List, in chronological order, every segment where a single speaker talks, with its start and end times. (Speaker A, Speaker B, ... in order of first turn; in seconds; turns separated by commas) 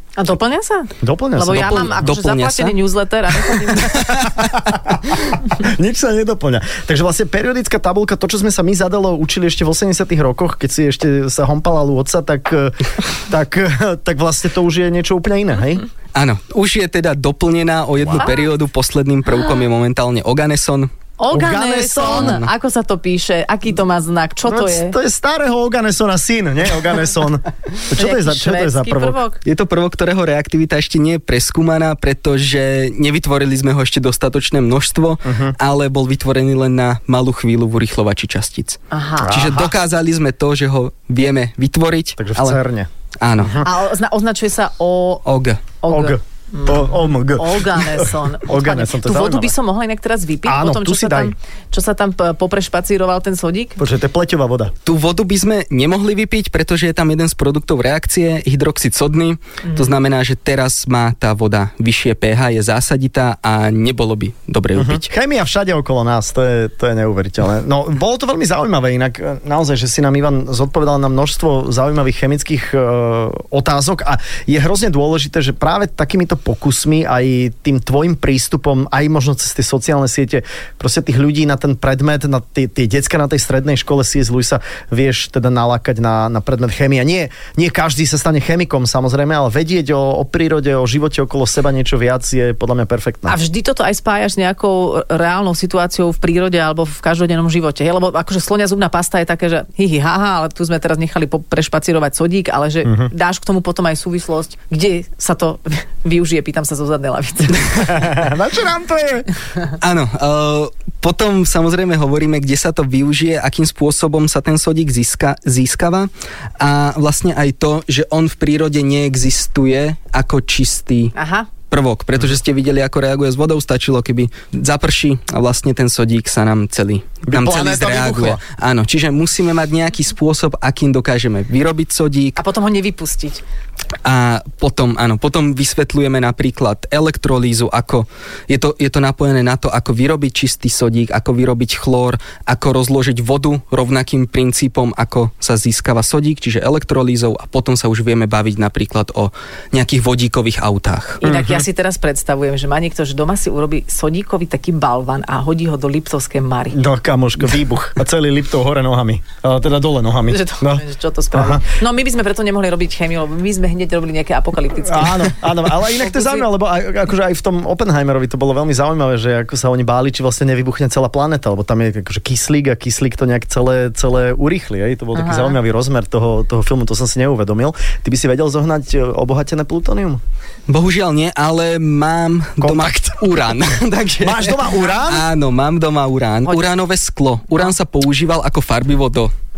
Speaker A: 0.2-4.2, Speaker B: 1.0-2.1, Speaker C: 1.5-2.8, Speaker C: 3.8-4.5, Speaker B: 3.9-15.9, Speaker C: 16.1-20.9, Speaker A: 18.2-18.5, Speaker A: 21.2-25.0, Speaker B: 21.3-22.4, Speaker C: 22.0-22.5, Speaker B: 24.5-29.2, Speaker A: 27.9-29.4, Speaker C: 29.4-42.6, Speaker B: 35.2-35.5, Speaker A: 38.9-39.5, Speaker B: 39.2-39.7, Speaker B: 42.2-42.9, Speaker C: 43.2-43.7, Speaker A: 43.6-45.3, Speaker C: 45.3-45.6, Speaker A: 45.8-53.8, Speaker B: 45.9-49.5, Speaker B: 50.5-51.3, Speaker B: 53.8-54.7, Speaker C: 54.9-65.1, Speaker A: 59.6-59.9, Speaker B: 64.8-93.4, Speaker A: 93.3-108.1, Speaker B: 107.7-109.3, Speaker C: 109.8-121.1, Speaker A: 121.2-121.5, Speaker C: 121.7-132.4, Speaker B: 127.3-128.4, Speaker A: 132.4-133.4, Speaker C: 134.0-151.2, Speaker A: 151.2-156.8, Speaker B: 151.2-151.7, Speaker B: 156.7-161.7, Speaker A: 160.3-166.5, Speaker B: 164.8-180.2, Speaker A: 175.2-175.6, Speaker C: 180.7-189.3, Speaker B: 182.6-183.3, Speaker B: 184.2-185.3